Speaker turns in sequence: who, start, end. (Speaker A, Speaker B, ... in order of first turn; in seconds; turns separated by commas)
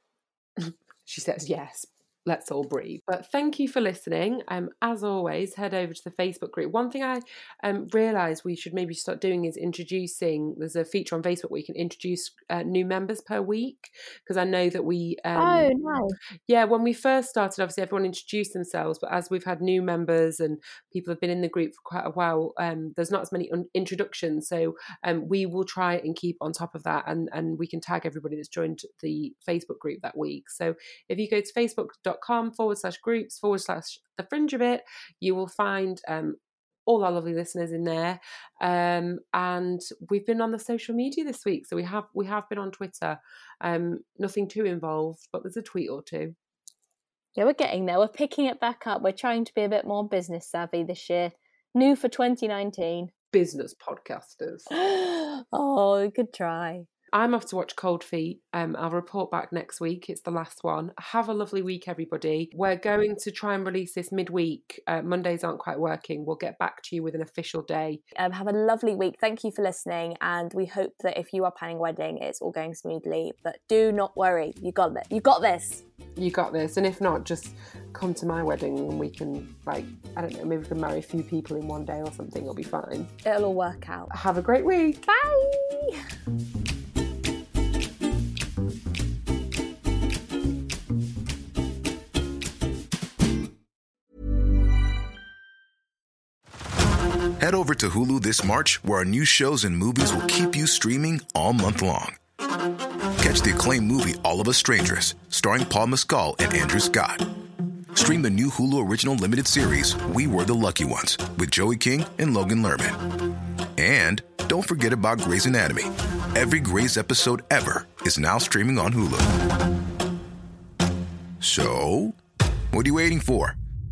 Speaker A: 0.6-15.7, Speaker B: 15.3-16.2, Speaker A: 16.5-46.4, Speaker B: 47.4-53.1, Speaker A: 53.3-54.7, Speaker B: 54.7-56.9, Speaker A: 57.1-68.0, Speaker B: 68.2-75.8, Speaker A: 76.2-83.1, Speaker B: 83.2-84.1, Speaker A: 84.1-85.2, Speaker B: 85.3-85.9, Speaker C: 97.4-102.2, Speaker C: 103.2-107.3, Speaker C: 107.9-113.0, Speaker C: 113.8-119.3, Speaker C: 121.4-122.2, Speaker C: 122.7-123.5